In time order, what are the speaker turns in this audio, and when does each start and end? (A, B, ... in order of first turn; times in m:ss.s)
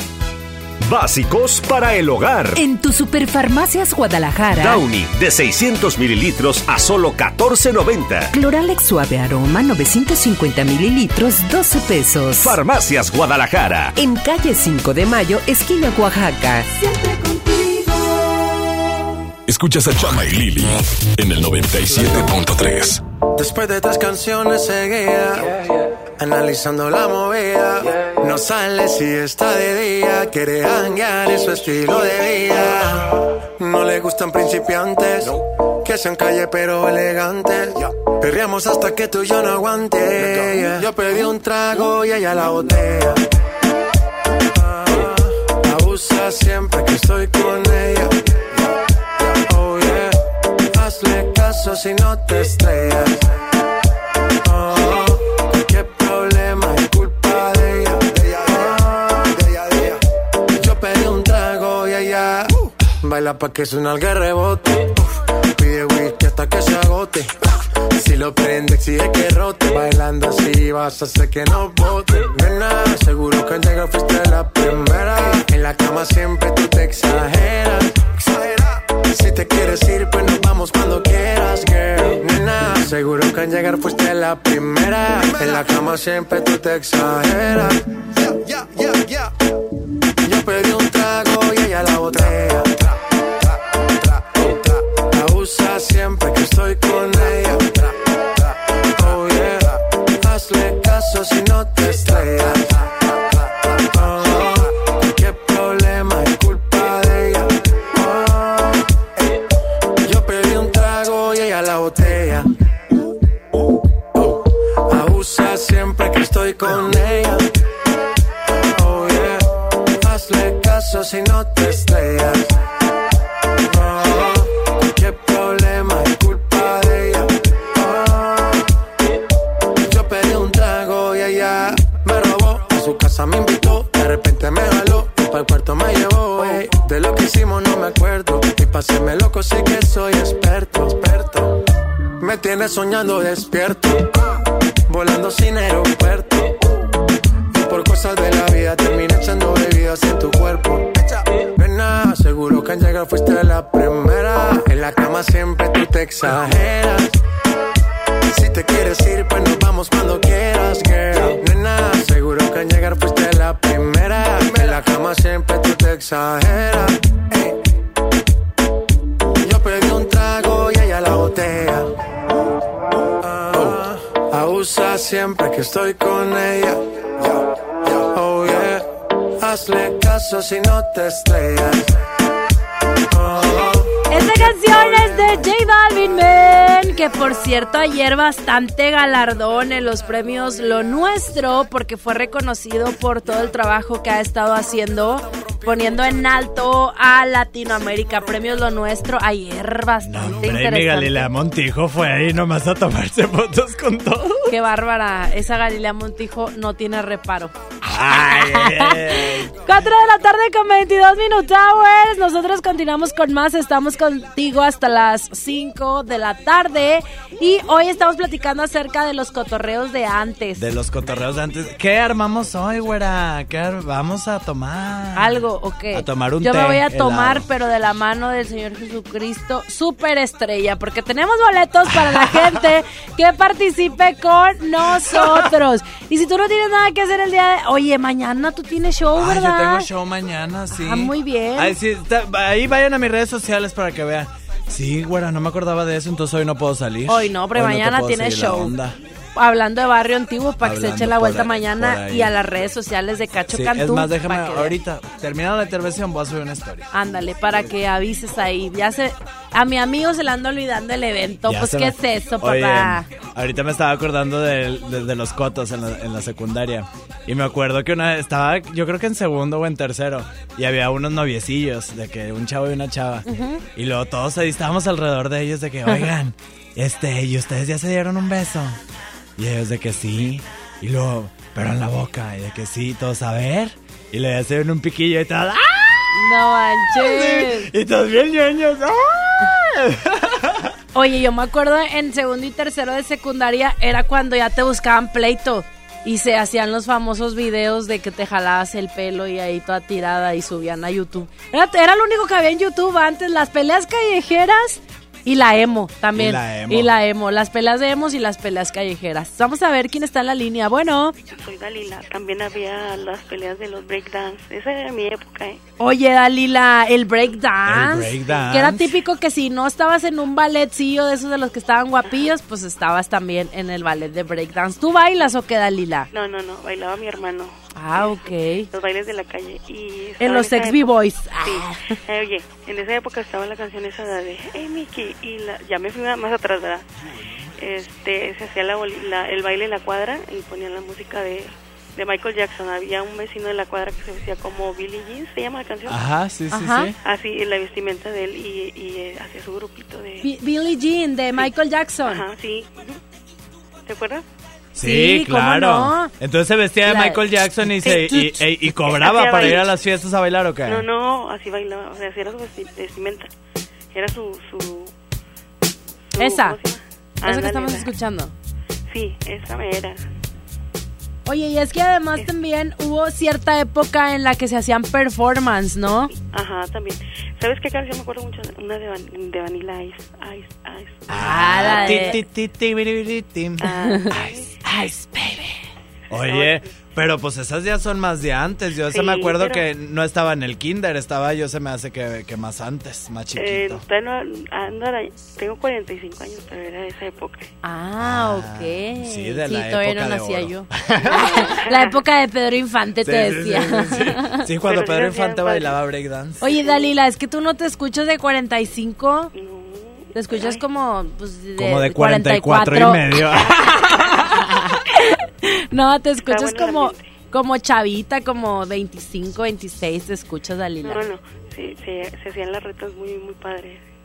0:00.8-0:02.6 A
0:02.6-0:04.8 B
0:04.5-0:08.3 A
0:08.3-0:12.6 B
0:12.4-0:13.9 A
0:14.0-0:16.7 B
0:19.4-0:23.0 C
0:23.4-0:25.6 D
0:26.2-0:43.2 D
0:44.6-0:48.1 D
0:49.4-0:50.2 D
0:50.7-0:53.3 D
0:54.4-0:59.9 D
1:00.6-1:27.8 D
1:30.2-1:32.8 D
1:34.3-1:37.9 D
1:39.0-1:42.9 D
1:43.8-1:48.8 D
1:50.0-1:52.5 D
1:54.9-1:57.4 D
1:58.6-2:02.5 D
2:03.6-2:08.6 D
2:09.8-2:21.5 D
2:22.2-2:24.1 D
2:24.9-2:26.5 D
2:27.5-2:30.9 D
2:31.6-2:37.1 D
2:38.3-2:47.0 D
2:49.4-2:51.9 D
2:53.2-2:56.8 D
2:58.0-2:58.8 D
2:59.4-3:01.9 D
3:03.1-3:03.8 D
3:04.1-3:21.3 E
3:20.0-3:24.5 F
3:24.5-3:27.5 E
3:27.9-3:29.5 F
3:28.1-3:40.6 E
3:40.6-3:45.3 F
3:45.2-3:59.9 E
3:45.9-3:47.4 F
3:52.0-3:52.6 F
3:59.2-4:09.0 F
4:00.7-4:01.8 E
4:07.1-4:08.7 E
4:09.4-4:14.8 E
4:10.6-4:12.3 F
4:13.5-4:16.9 F
4:16.9-4:23.1 E
4:21.5-4:38.8 F
4:33.3-4:33.6 E
4:39.4-4:46.2 F
4:46.1-4:47.7 E
4:46.9-4:50.7 F
4:50.9-5:11.1 E
5:06.1-5:06.9 F
5:11.2-5:15.6 G
5:15.8-5:26.1 E
5:17.6-5:18.8 F
5:26.1-5:36.8 G
5:27.7-5:28.7 E
5:30.2-5:31.9 E
5:37.6-5:46.0 G
5:45.9-5:46.9 F
5:46.5-5:46.9 E
5:47.0-5:50.3 G
5:50.2-5:52.2 E
5:52.1-5:53.0 G
5:53.9-5:54.2 G
5:54.8-6:00.8 F
5:54.8-5:56.1 E
5:56.8-5:57.2 E
5:57.8-5:59.7 G
6:00.6-6:03.3 G
6:03.9-6:04.9 G
6:06.1-6:07.9 G
6:06.2-6:06.6 E
6:07.2-6:08.3 E
6:08.9-6:10.0 G
6:11.2-6:16.1 E
6:16.1-6:21.0 G
6:21.1-6:25.5 F
6:21.2-6:22.2 E
6:21.7-6:22.0 G
6:23.6-6:24.5 G
6:26.1-6:33.8 F
6:26.1-6:26.6 G
6:28.9-6:29.6 G
6:33.3-6:37.5 G
6:37.6-6:44.4 E
6:38.0-6:41.6 F
6:43.0-6:46.5 F
6:44.6-6:45.8 G
6:46.4-6:49.3 E
6:46.6-6:46.9 G
6:49.3-6:50.6 G
6:50.1-6:53.2 E
6:51.6-6:54.5 F
6:53.4-6:54.1 G
6:55.1-7:01.0 E
6:56.3-6:57.2 G
7:00.8-7:03.8 G